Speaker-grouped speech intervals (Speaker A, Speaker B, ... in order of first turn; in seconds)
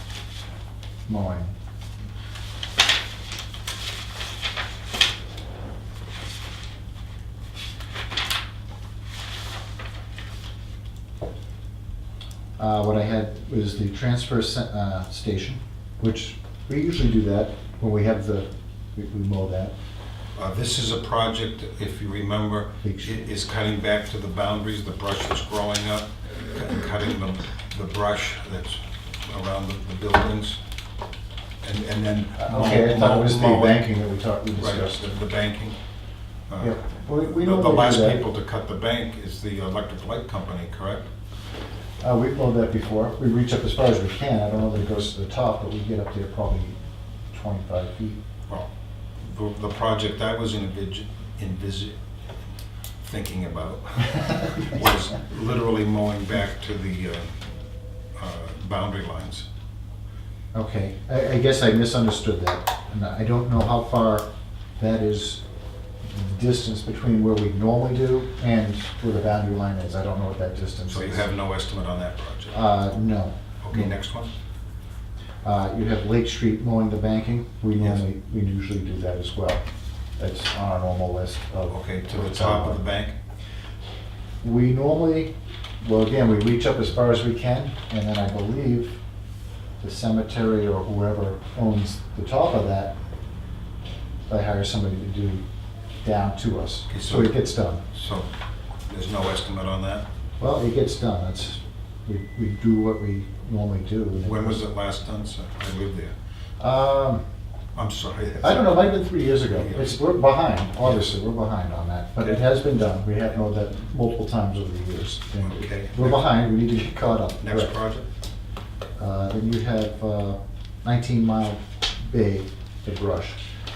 Speaker A: 1.1-1.5, 12.6-19.7, 22.8-23.2, 32.4-35.1, 36.6-38.2, 42.0-46.8, 47.3-48.2, 60.5-64.3, 64.8-65.4, 66.0-71.3, 72.5-73.9, 75.4-79.6, 80.2-82.8, 84.4-89.0, 89.8-92.9, 94.3-95.4, 96.0-97.8, 100.4-104.6, 106.6-107.2, 108.4-117.8, 119.0-123.4
Speaker B: 20.4-30.6, 31.6-33.8, 34.6-35.8, 36.5-41.1, 49.2-52.0, 53.0-57.4, 58.2-59.5, 70.9-72.6, 73.6-74.3, 81.7-83.2, 96.9-97.4, 97.9-98.3, 98.9-100.1, 104.2-106.1, 107.8-108.9, 109.5-110.0, 115.4-116.3, 117.4-118.1